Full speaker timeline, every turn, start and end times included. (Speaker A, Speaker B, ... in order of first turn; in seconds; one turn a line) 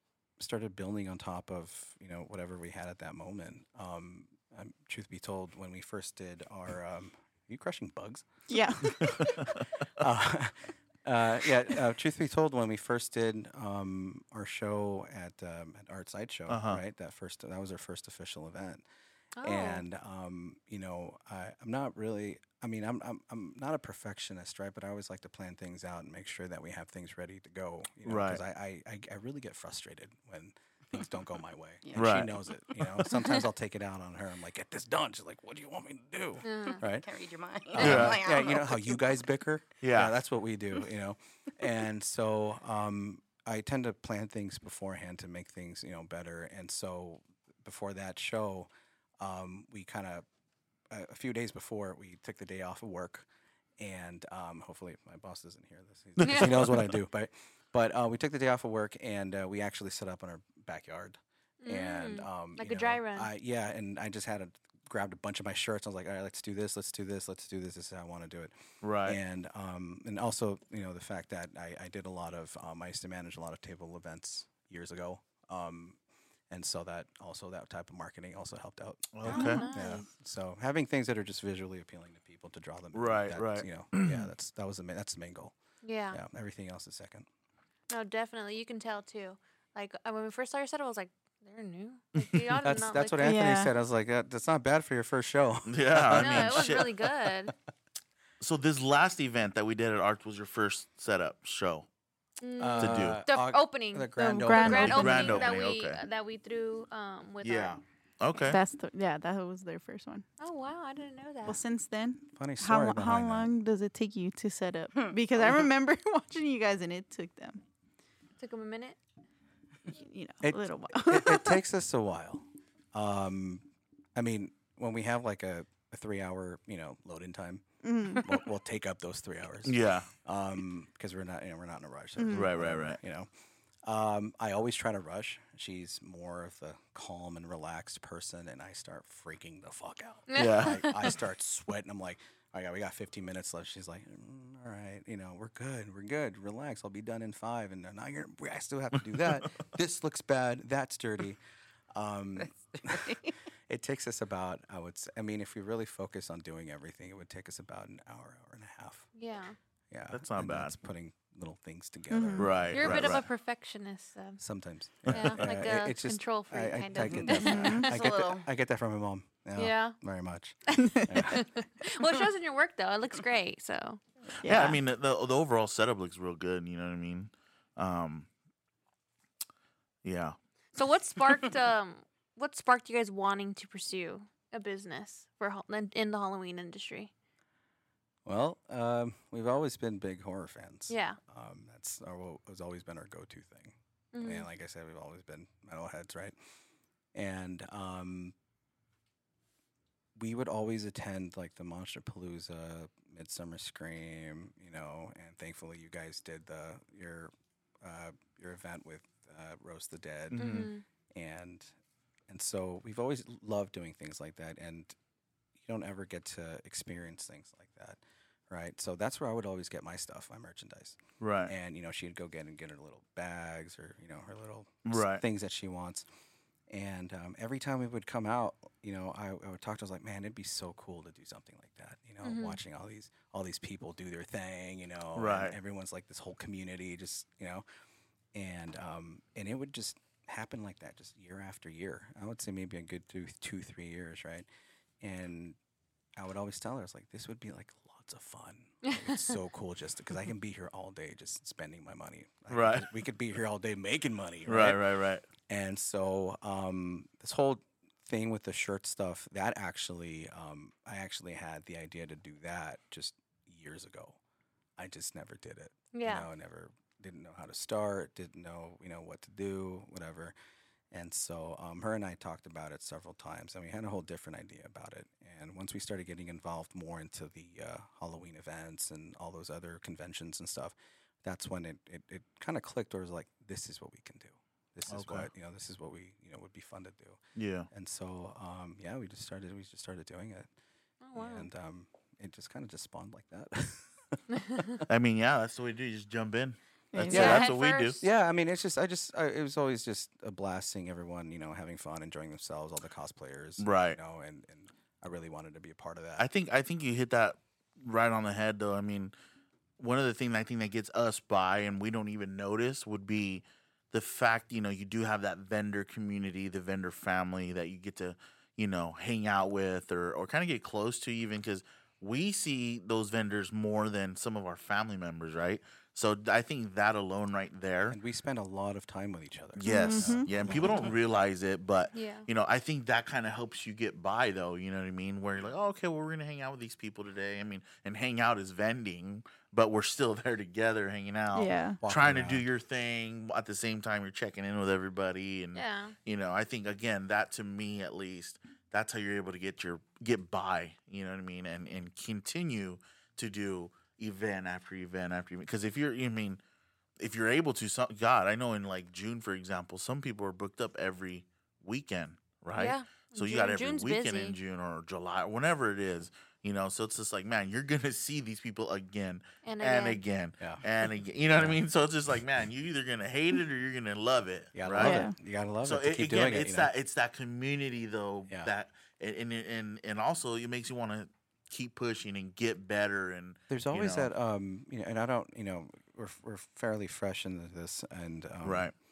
Speaker A: 0.4-18.9
Speaker B: 8.5-9.4
Speaker C: 9.2-9.6
Speaker C: 16.5-16.8
Speaker D: 19.4-19.9
Speaker A: 19.4-37.1
Speaker C: 28.1-28.4
Speaker E: 31.8-32.2
Speaker C: 32.0-32.3
Speaker D: 36.4-36.8
Speaker E: 36.8-39.2
Speaker A: 37.7-50.3
Speaker C: 37.8-38.2
Speaker C: 39.8-40.1
Speaker A: 50.9-53.3
Speaker A: 53.8-68.5
Speaker C: 56.2-57.0
Speaker D: 56.2-56.6
Speaker D: 61.6-63.3
Speaker C: 68.8-69.2
Speaker A: 69.0-76.0
Speaker A: 76.5-85.5
Speaker C: 79.1-79.7
Speaker D: 79.3-80.1
Speaker C: 82.9-84.3
Speaker D: 85.8-86.2
Speaker A: 86.1-87.3
Speaker D: 87.9-93.5
Speaker A: 92.6-97.5
Speaker B: 93.2-93.7
Speaker C: 95.7-96.9
Speaker D: 96.1-97.5
Speaker C: 98.4-101.9
Speaker D: 102.4-107.8
Speaker A: 102.6-105.5
Speaker C: 102.8-103.2
Speaker B: 104.2-105.3
Speaker C: 104.6-106.0
Speaker C: 107.4-108.6
Speaker B: 108.5-110.3
Speaker D: 110.4-111.6
Speaker B: 111.5-117.6
Speaker A: 112.3-113.5
Speaker D: 118.4-119.0
Speaker B: 119.9-121.6
Speaker A: 120.4-127.6
Speaker B: 127.8-128.3
Speaker A: 128.2-133.3
Speaker C: 129.7-130.1
Speaker B: 132.2-132.5
Speaker C: 132.3-133.0
Speaker A: 133.8-151.4
Speaker D: 140.3-141.1
Speaker C: 140.3-140.8
Speaker A: 151.9-159.1
Speaker E: 152.4-153.3
Speaker D: 159.2-159.6
Speaker A: 159.9-163.2
Speaker C: 160.1-160.8
Speaker B: 162.1-162.5
Speaker C: 162.4-163.2
Speaker D: 162.7-164.4
Speaker A: 164.4-171.5
Speaker D: 165.0-167.9
Speaker C: 165.1-165.4
Speaker E: 167.0-168.5
Speaker B: 167.5-167.9
Speaker D: 169.6-170.0
Speaker B: 170.7-171.3
Speaker D: 171.2-174.0
Speaker B: 174.4-174.8
Speaker C: 174.4-178.3
Speaker C: 180.0-180.4
Speaker D: 180.8-187.1
Speaker A: 188.2-196.3
Speaker D: 190.9-191.2
Speaker D: 194.1-194.5
Speaker A: 197.1-198.3
Speaker A: 200.2-210.5
Speaker C: 210.3-210.7
Speaker D: 210.4-210.8
Speaker A: 211.2-211.7
Speaker A: 212.3-214.9
Speaker A: 215.6-226.1
Speaker C: 221.2-221.5
Speaker C: 224.9-225.2
Speaker A: 226.7-237.6
Speaker D: 232.2-232.6
Speaker C: 235.2-235.6
Speaker A: 238.3-244.5
Speaker A: 245.0-245.6
Speaker A: 246.2-254.8
Speaker D: 248.8-249.3
Speaker C: 252.5-252.9
Speaker C: 254.5-255.2
Speaker A: 255.5-264.2
Speaker A: 264.8-270.3
Speaker D: 265.9-266.3
Speaker A: 270.9-287.2
Speaker C: 284.9-285.3
Speaker C: 287.4-287.7
Speaker A: 287.7-290.5
Speaker D: 291.0-291.5
Speaker A: 291.1-294.9
Speaker D: 294.4-294.6
Speaker C: 294.9-298.0
Speaker B: 296.9-297.4
Speaker A: 297.1-297.5
Speaker D: 297.1-298.1
Speaker A: 298.0-306.3
Speaker C: 303.6-304.0
Speaker C: 306.2-309.1
Speaker C: 309.8-328.0
Speaker A: 327.9-331.0
Speaker C: 329.6-356.4
Speaker B: 329.6-330.3
Speaker D: 331.9-332.3
Speaker B: 341.3-341.8
Speaker A: 341.8-342.4
Speaker D: 345.6-345.9
Speaker C: 357.0-375.0
Speaker D: 362.6-364.4
Speaker D: 369.4-370.0
Speaker A: 371.4-371.6
Speaker A: 374.6-376.7
Speaker B: 374.8-375.1
Speaker C: 375.6-384.1
Speaker A: 383.5-388.7
Speaker C: 388.4-388.7